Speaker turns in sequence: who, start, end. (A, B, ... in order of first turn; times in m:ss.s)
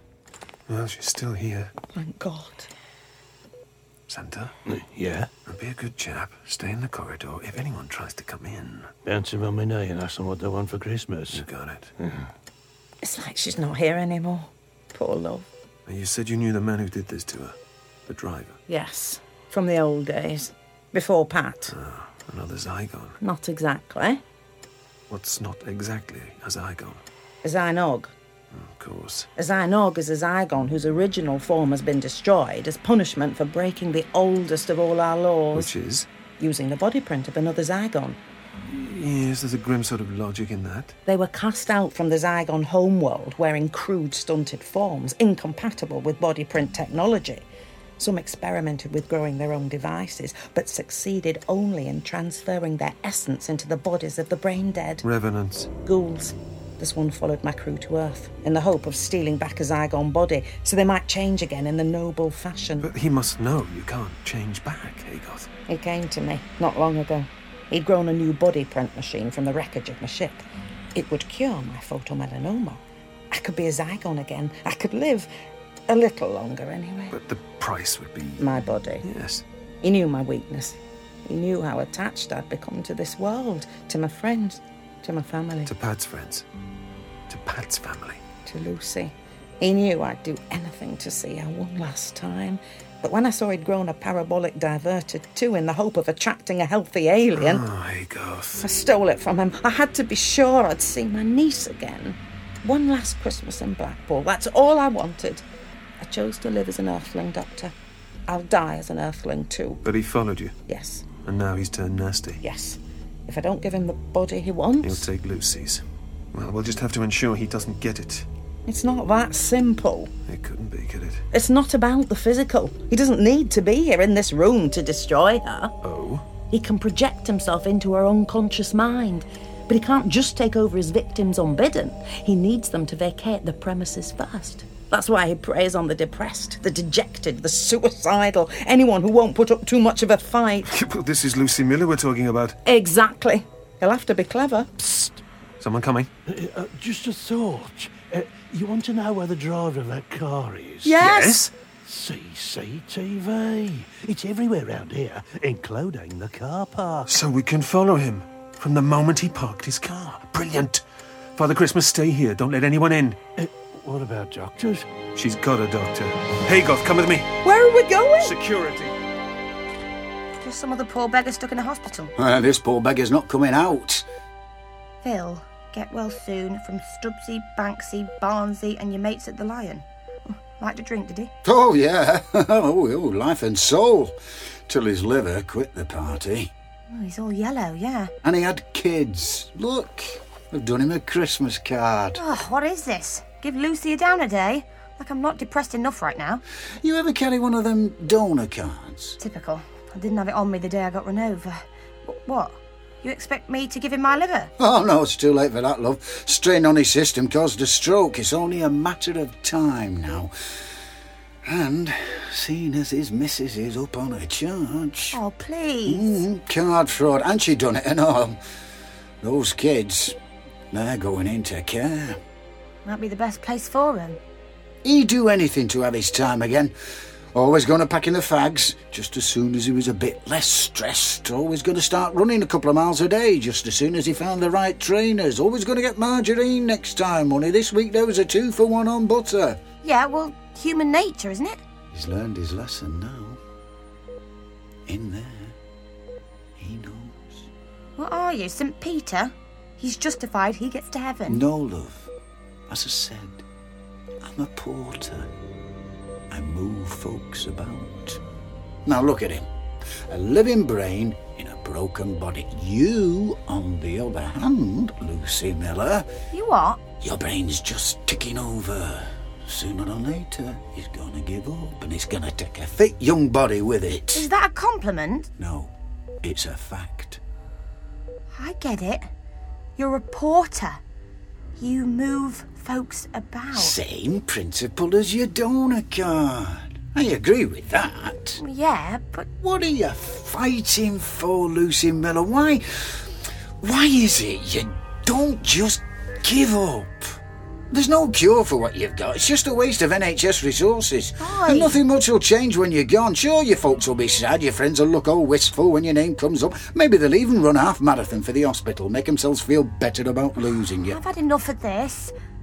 0:00.7-0:01.7 A
0:01.9-0:02.7 B
0:04.1-0:04.5 A
0:04.7-0:05.3 C
0:05.5-0:08.9 A
0:09.0-0:11.4 C
0:11.3-0:11.9 A
0:13.0-0:15.5 B
0:15.9-0:17.6 A
0:18.1-0:18.6 A
0:18.7-0:21.8 B
0:21.7-0:23.2 A
0:23.2-0:24.2 B
0:25.1-0:27.0 A
0:27.4-0:28.1 B
0:28.5-0:29.3 A
0:29.4-0:35.7 B
0:35.6-0:36.1 A
0:36.4-0:38.2 B
0:38.7-0:41.0 A
0:41.1-0:47.4 B
0:48.0-0:55.0 B
0:55.0-0:55.7 A
0:55.8-1:02.9 B
1:02.8-1:05.5 A
1:05.7-1:10.4 B
1:11.0-1:15.3 B
1:15.9-1:17.2 B
1:17.1-1:19.4 A
1:18.4-1:19.0 B
1:19.8-1:25.7 B
1:25.7-1:26.4 A
1:27.3-1:28.2 A
1:28.5-1:37.6 B
1:37.4-1:38.6 A
1:38.6-1:45.4 B
1:46.0-1:47.7 B
1:48.3-1:49.8 B
1:49.8-1:50.5 A
1:50.7-1:51.1 B
1:51.2-1:52.4 A
1:52.4-1:55.1 B
1:54.8-1:58.3 A
1:58.7-2:00.1 B
2:00.3-2:01.2 A
2:01.3-2:05.7 B
2:05.8-2:06.2 A
2:06.5-2:20.7 B
2:20.7-2:22.6 A
2:22.6-2:25.0 B
2:25.6-2:26.1 A
2:26.3-2:31.0 C
2:30.8-2:31.4 B
2:31.0-2:31.5 A
2:31.9-2:37.1 C
2:37.1-2:40.8 A
2:41.4-2:43.2 A
2:43.4-2:44.9 C
2:45.2-2:47.3 A
2:47.4-2:48.3 B
2:48.2-2:48.9 A
2:50.4-2:52.1 D
2:52.2-2:54.0 E
2:55.0-3:01.3 D
3:01.4-3:04.2 E
3:04.7-3:06.5 E
3:06.9-3:08.1 D
3:08.2-3:12.2 E
3:12.2-3:16.4 D
3:16.8-3:19.2 E
3:19.2-3:24.5 D
3:24.6-3:30.3 E
3:31.4-3:35.2 E
3:35.1-3:36.2 D
3:35.9-3:38.4 E
3:39.2-3:40.2 E
3:40.7-3:42.2 E
3:42.8-3:44.2 D
3:44.8-3:46.7 E
3:47.3-3:59.6 E
3:59.8-4:01.6 D
4:01.9-4:03.4 E
4:04.9-4:05.6 E
4:06.6-4:07.5 E
4:08.0-4:11.4 D
4:11.3-4:12.1 E
4:12.7-4:13.4 E
4:14.2-4:15.3 E
4:16.3-4:18.2 E
4:18.8-4:19.5 E
4:20.1-4:26.1 E
4:26.3-4:26.8 D
4:27.0-4:34.3 E
4:34.1-4:35.3 D
4:35.4-4:37.2 E
4:38.4-4:39.1 D
4:39.8-4:40.8 D
4:41.6-4:43.8 D
4:43.5-4:48.4 E
4:48.4-4:49.3 D
4:49.4-4:53.1 E
4:53.6-4:57.2 E
4:57.7-5:11.0 E
5:01.2-5:01.8 D
5:10.8-5:12.1 D